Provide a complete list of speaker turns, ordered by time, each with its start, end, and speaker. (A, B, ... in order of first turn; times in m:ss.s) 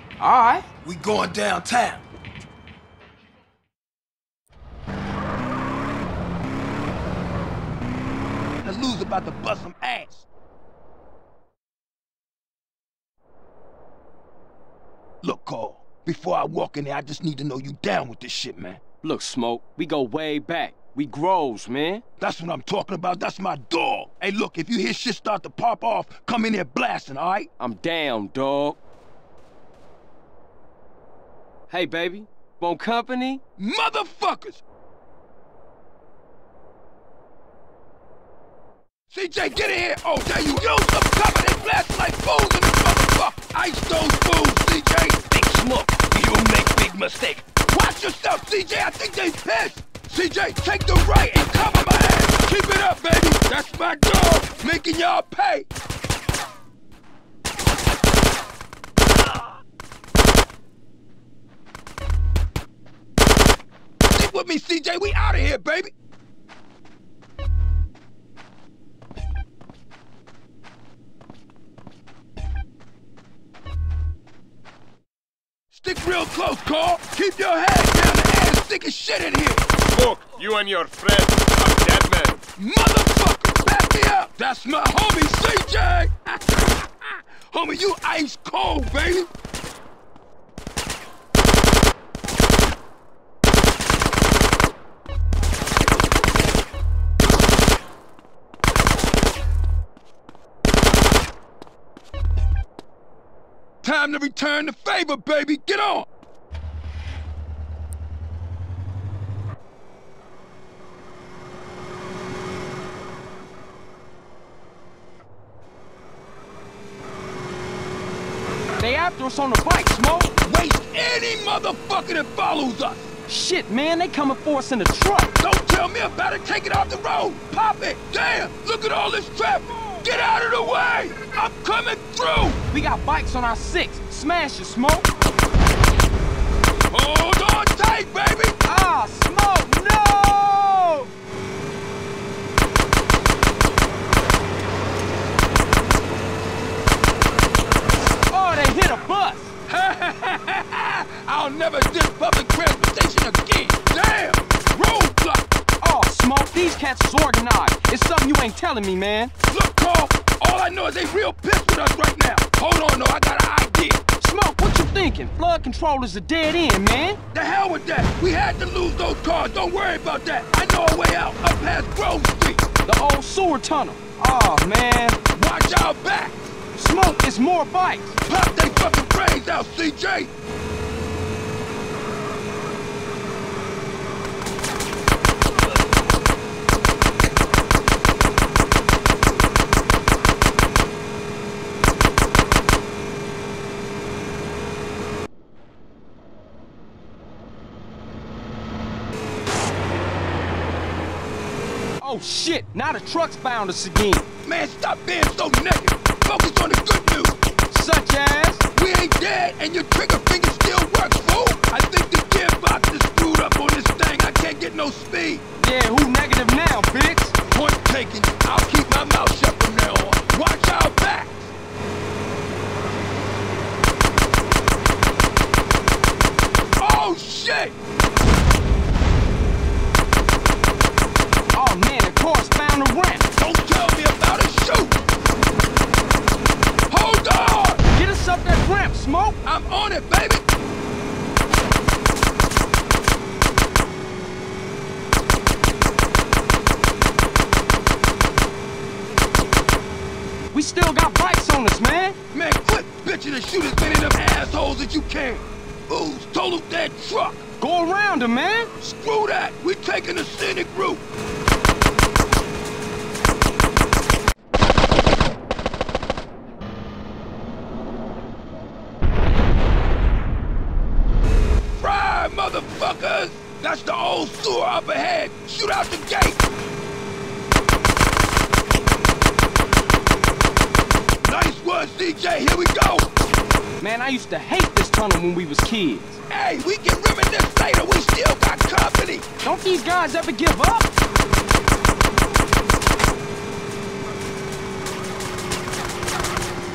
0:00.2-0:00.7 A
0:00.8-0:02.0 B
0:08.6-0:10.2 B
0:15.2-0:18.8 B
0:19.0-0:22.0 A
0:22.2-0:27.5 B
0:27.6-0:28.8 A
0:31.7-0:33.4 A
0:33.6-0:34.6 B
0:39.1-0:55.7 B
1:04.1-1:05.9 B
1:15.7-1:19.6 B
1:19.8-1:22.4 C
1:22.6-1:29.3 B
1:43.8-1:46.1 B
1:58.8-2:00.3 A
2:00.4-2:03.1 B
2:03.3-2:05.3 A
2:05.4-2:12.6 B
2:12.7-2:15.1 A
2:16.9-2:18.5 B
2:18.6-2:21.1 A
2:28.3-2:29.5 A
2:29.7-2:35.4 B
2:35.8-2:39.3 A
2:39.5-2:44.0 B
2:44.2-2:47.2 A
2:47.3-2:52.6 B
2:52.8-2:55.2 A
2:55.3-2:56.5 B
2:56.7-2:58.2 A
2:58.2-3:00.3 B
3:22.0-3:24.3 A
3:24.4-3:27.3 B
3:27.7-3:28.6 A
3:28.7-3:35.4 B
3:35.6-3:37.3 A
3:37.5-3:41.5 B
3:46.8-3:47.8 B
3:51.5-3:53.3 A
3:53.4-3:55.0 B
3:56.9-3:57.8 B
3:57.9-3:59.4 A
3:59.4-4:00.4 B
4:10.5-4:12.2 A
4:12.3-4:17.4 B
4:17.6-4:18.7 A
4:18.8-4:21.0 B
4:31.8-4:36.4 B
4:41.2-4:43.1 B
4:43.8-4:46.2 A
4:46.3-4:49.3 B
4:49.4-4:50.9 A